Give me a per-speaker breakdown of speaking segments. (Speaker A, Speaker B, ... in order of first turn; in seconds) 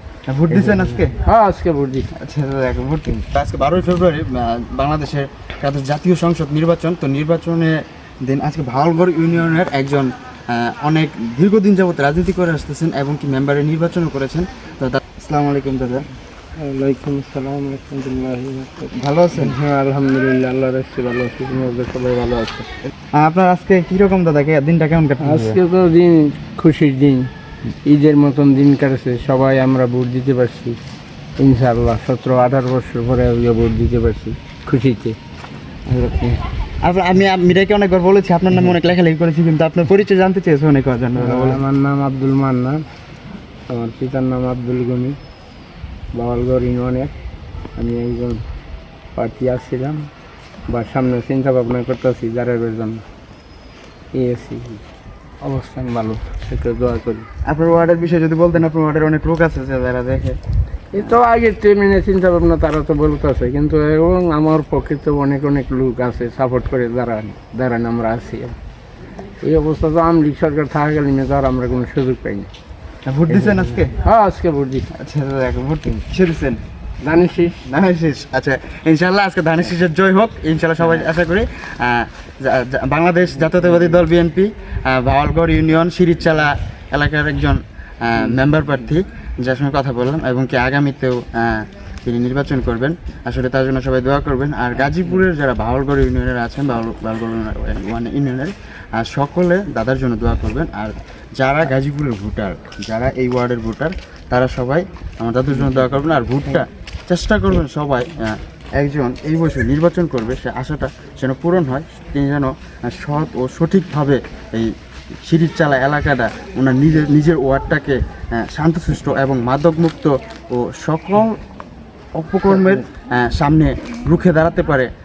Speaker A: 0.3-1.2, 2.2-16.1, 18.9-19.6, 23.1-25.6, 35.9-41.6, 57.5-60.4, 73.0-74.0, 74.9-76.6, 77.7-114.7, 115.2-121.4, 122.2-124.9
Speaker B: 1.2-2.1, 16.6-22.7, 25.2-27.3, 27.8-30.8, 31.4-35.2, 41.2-42.9, 43.7-45.2, 46.1-47.1, 47.8-48.4, 49.1-50.1, 50.7-53.0, 54.1-54.8, 55.4-57.3, 60.9-68.6, 69.4-72.5, 74.0-74.9, 77.0-77.7